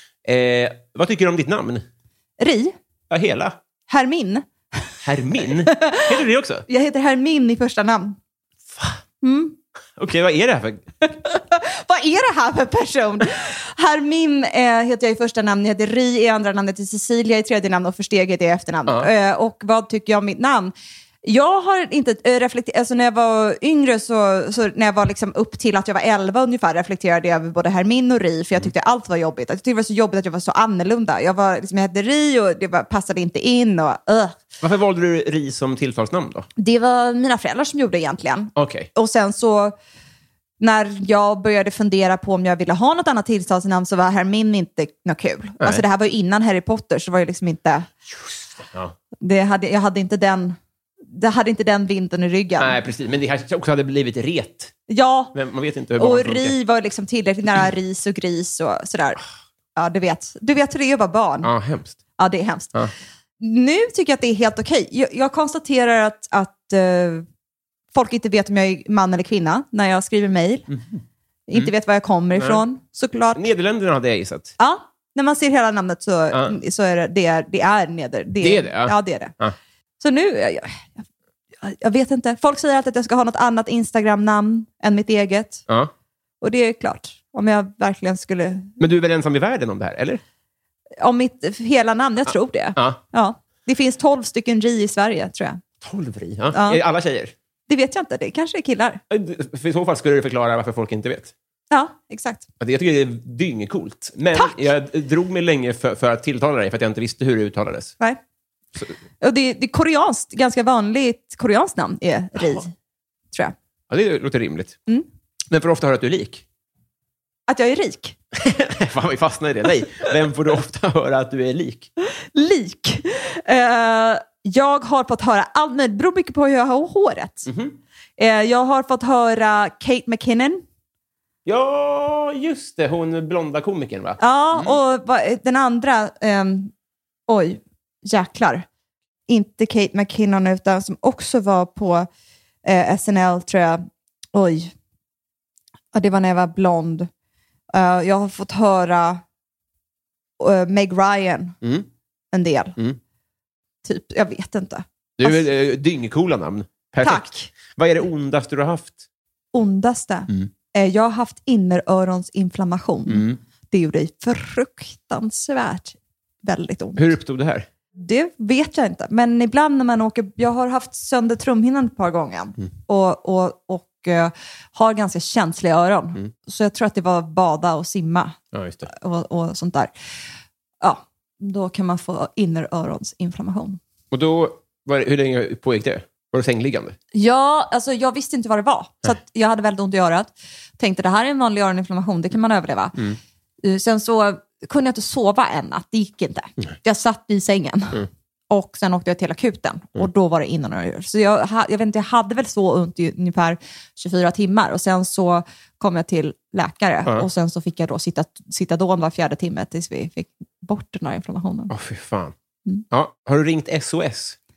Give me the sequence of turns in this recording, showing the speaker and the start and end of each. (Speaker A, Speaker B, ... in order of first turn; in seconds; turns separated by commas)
Speaker A: 0.2-1.9, Speaker B: 2.4-2.7, Speaker A: 3.1-3.6, Speaker B: 3.9-4.5, Speaker A: 5.0-6.6, Speaker B: 5.6-8.2, Speaker A: 8.7-9.0, Speaker B: 9.2-9.6, Speaker A: 10.0-10.8, Speaker B: 11.0-20.7, Speaker B: 21.2-34.4, Speaker A: 34.6-36.5, Speaker B: 36.6-39.7, Speaker A: 38.5-38.9, Speaker B: 40.6-47.9, Speaker A: 48.6-48.9, Speaker B: 49.2-52.8, Speaker A: 52.6-54.7, Speaker B: 54.9-55.3, Speaker A: 55.3-56.5, Speaker B: 56.0-59.2, Speaker B: 59.8-61.5, Speaker A: 61.4-62.0, Speaker B: 62.2-62.9, Speaker B: 63.4-67.3, Speaker B: 67.9-70.7, Speaker B: 71.5-73.4, Speaker A: 72.4-72.6, Speaker A: 73.3-74.5, Speaker B: 74.6-79.3, Speaker A: 78.4-79.5, Speaker B: 80.0-80.9, Speaker B: 81.6-85.7, Speaker B: 86.4-88.8, Speaker A: 88.8-90.2, Speaker B: 91.0-95.6, Speaker A: 95.8-97.3, Speaker B: 96.5-96.8, Speaker B: 97.7-99.0, Speaker A: 99.1-101.3, Speaker B: 101.7-102.5, Speaker A: 102.6-107.9, Speaker B: 109.2-112.7, Speaker A: 113.9-114.8, Speaker A: 115.5-116.4, Speaker B: 117.5-118.2, Speaker A: 118.3-121.9, Speaker B: 122.1-127.5, Speaker A: 127.5-127.8, Speaker B: 128.2-130.6, Speaker A: 131.4-134.8, Speaker B: 134.2-136.7, Speaker B: 137.3-138.7, Speaker B: 139.3-142.1, Speaker B: 142.6-144.7, Speaker B: 145.9-147.1, Speaker B: 147.7-149.2, Speaker B: 150.4-151.6, Speaker A: 151.6-151.9, Speaker B: 152.3-152.8, Speaker B: 153.8-155.4, Speaker A: 155.2-159.0, Speaker B: 157.0-157.5, Speaker B: 159.5-167.1, Speaker A: 163.1-163.4, Speaker A: 166.9-167.7, Speaker B: 167.9-179.9, Speaker A: 178.5-178.9, Speaker B: 180.8-183.8, Speaker A: 184.1-186.9, Speaker B: 187.1-193.1, Speaker B: 193.6-211.7, Speaker A: 211.7-212.3, Speaker A: 212.9-214.4